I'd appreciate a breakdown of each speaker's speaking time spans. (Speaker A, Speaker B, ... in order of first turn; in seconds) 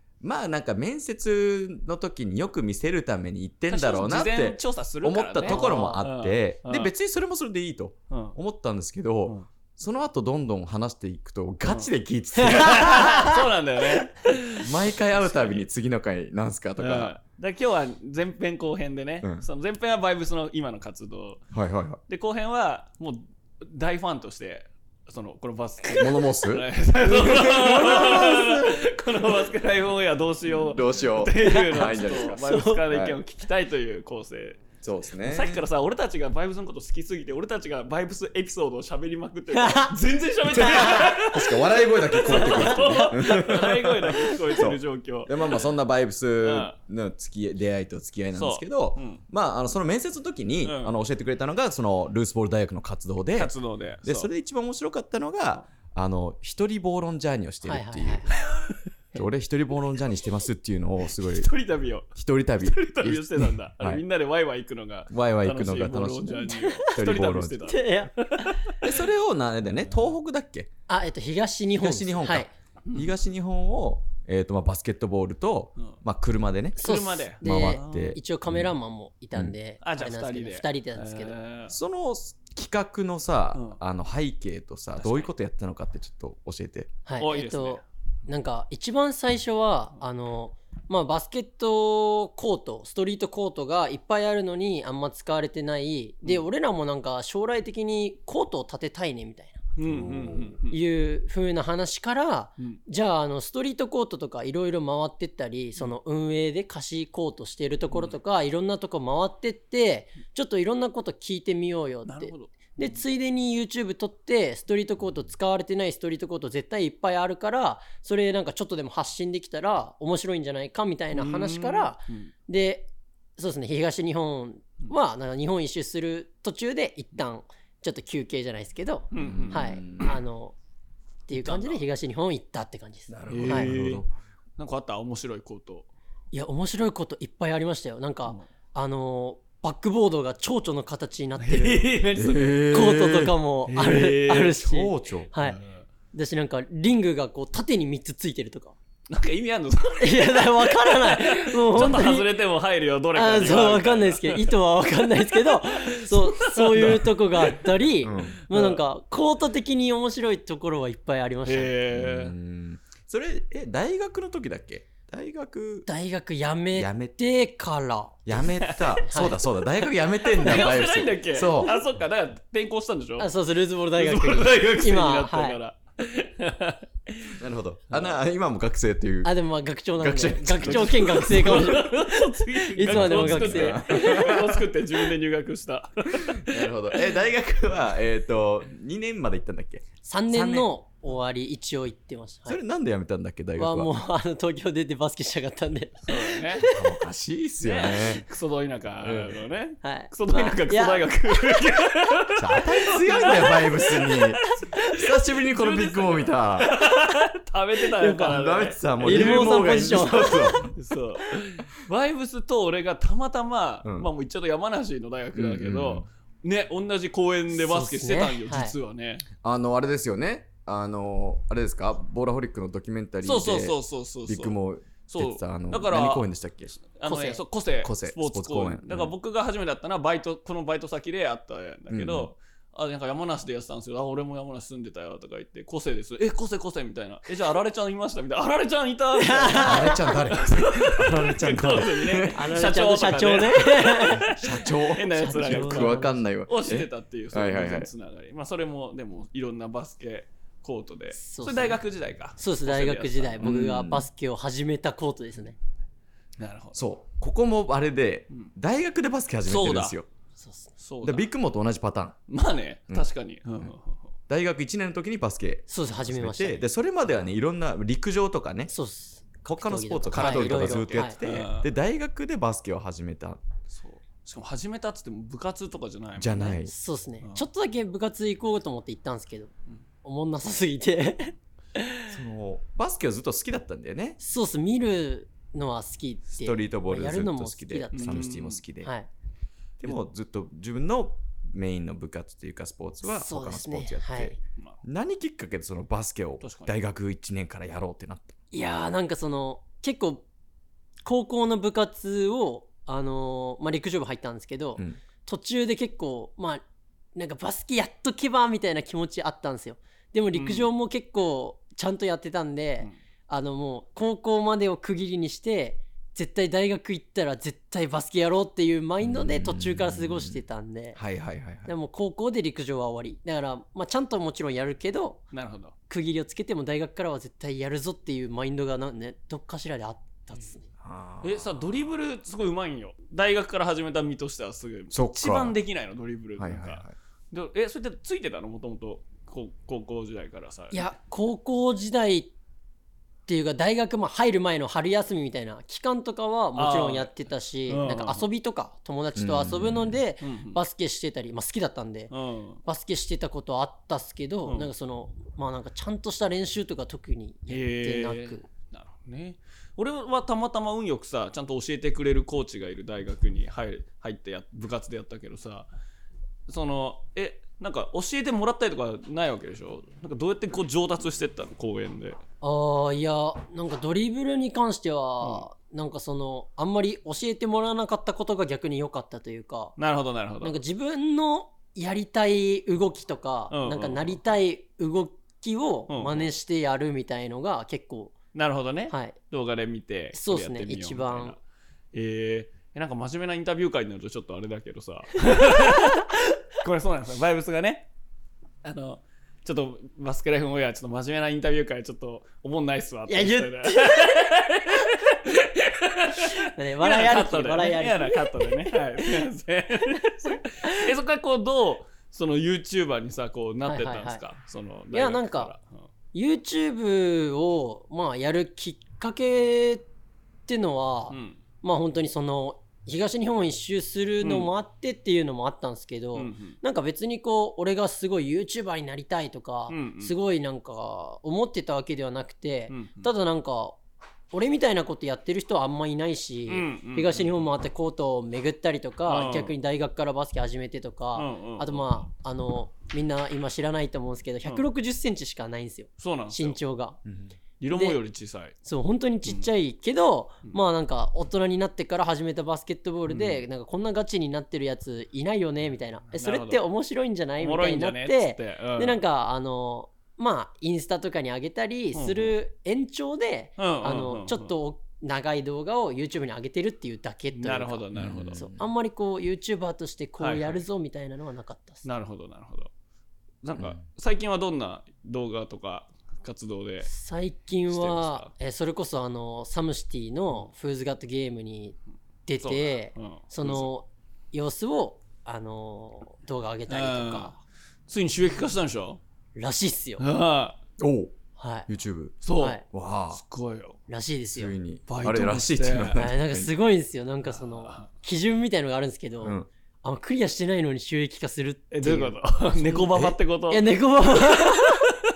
Speaker A: 0.2-13.1, 14.6-17.2, 21.5-22.0, 25.9-28.7, 30.4-33.2, 34.8-35.6, 40.5-53.5, 54.0-58.5, 59.1-61.5, 62.1-64.0, 65.1-67.8, 68.8-70.7, 71.8-78.7, 81.7-86.9, 99.8-100.6, 129.2-130.2, 133.1-134.1, 142.2-145.3, 158.0-158.4, 161.9-165.9, 166.7-167.2, 168.2-171.7, 177.4-179.3, 180.0-181.7, 182.9-184.5, 186.4-190.7, 192.5-193.9, 196.7-198.2, 199.0-199.4, 202.3-204.4, 204.9-206.7, 208.3-210.7, 213.8-214.1, 215.3-216.0, 219.4-226.8, 227.8-229.1, 231.9-232.3, 239.6-242.5, 244.1-247.9, 253.4-254.1, 256.7-260.1, 261.0-262.2, 264.3-268.7, 269.4-273.4, 276.2-276.7, 282.1-284.2, 286.4-288.9, 289.8-298.3, 319.0-320.4, 320.9-321.7, 330.8-331.7, 334.9-335.6, 336.4-336.9, 349.1-350.0, 447.0-447.3, 467.9-468.6, 473.6-473.8, 490.8-491.1, 491.7-493.2, 494.3-496.5, 499.2-499.5, 502.8-503.1
Speaker B: 3.7-6.9, 8.1-8.4, 11.7-11.9, 12.4-15.6, 16.8-21.5, 22.1-34.6, 35.2-45.7, 46.4-46.8, 48.3-49.2, 50.6-50.9, 53.3-54.3, 61.2-62.1, 62.6-68.7, 76.8-78.2, 79.8-81.8, 83.5-83.8, 84.9-85.3, 87.2-87.8, 99.8-100.8, 112.0-113.0, 121.1-122.3, 129.1-129.8, 131.3-131.8, 133.3-134.0, 134.6-135.9, 141.4-142.6, 143.7-144.6, 145.4-145.8, 149.1-154.5, 155.9-157.7, 158.4-158.8, 161.4-162.3, 168.6-169.0, 170.3-173.3, 173.9-177.4, 180.6-186.7, 196.1-196.7, 197.6-204.2, 205.4-209.7, 210.7-219.2, 223.2-224.6, 225.1-226.3, 226.8-253.5, 256.4-256.9, 259.4-260.0, 260.8-261.3, 262.3-264.1, 270.1-271.7, 273.7-276.6, 277.2-277.5, 287.9-288.6, 296.4-296.7, 310.3-310.7, 325.3-325.7, 331.2-340.8, 346.6-347.1, 347.7-348.2, 350.2-350.6, 352.1-352.6, 354.4-354.7, 357.5-365.7, 366.5-372.2, 379.8-380.5, 383.5-384.1, 385.9-386.3, 388.3-391.4, 391.9-397.9, 398.6-415.9, 421.1-421.4, 424.2-424.5, 426.1-426.6, 429.7-430.1, 432.7-433.1, 436.5-437.3, 439.1-439.5, 441.1-441.8, 446.0-446.6, 447.6-448.5, 453.1-453.4, 456.1-456.6, 457.4-459.0, 461.9-462.3, 463.6-464.5, 467.4-468.4, 470.2-470.6, 471.8-472.7, 473.4-476.9, 477.7-478.3, 482.4-483.7, 486.7-487.3, 487.9-489.0, 490.0-490.6, 492.2-492.6, 493.1-493.8, 494.9-496.0, 497.2-497.9, 501.7-504.8
Speaker C: 5.4-6.0, 12.4-13.3, 31.4-32.8, 39.5-39.9, 40.6-41.1, 42.2-43.5, 57.6-58.3, 66.4-66.8, 67.7-68.6, 70.9-72.5, 76.8-81.3, 87.0-99.6, 100.7-130.6, 131.3-133.7, 136.3-142.0, 142.7-145.6, 146.1-148.8, 150.0-152.3, 153.1-161.7, 165.9-168.2, 169.0-169.3, 170.4-170.8, 173.2-175.6, 179.2-184.4, 190.0-192.6, 193.6-196.7, 199.8-201.6, 202.8-203.9, 204.6-204.9, 208.0-208.4, 209.0-210.7, 217.5-218.7, 227.1-227.4, 239.2-240.2, 242.3-244.3, 245.2-246.2, 251.2-251.8, 252.4-255.6, 260.4-260.7, 265.7-266.6, 268.7-271.2, 276.7-282.1, 284.2-289.1, 293.0-294.4, 298.5-300.2, 301.0-306.6, 307.1-321.0, 321.6-325.2, 325.9-330.6, 340.7-342.3, 343.3-352.1, 352.6-358.4, 372.4-379.7, 380.4-388.1, 388.9-389.1, 390.1-391.4, 395.6-395.9, 403.1-405.0, 406.3-408.6, 409.9-410.9, 413.6-414.2, 414.9-415.5, 416.1-419.9, 420.5-433.8, 434.3-447.0, 447.7-448.0, 448.6-471.8, 476.9-487.4, 489.4-490.0, 491.4-491.7, 492.4-492.6, 493.9-494.6, 496.0-502.9, 503.5-504.9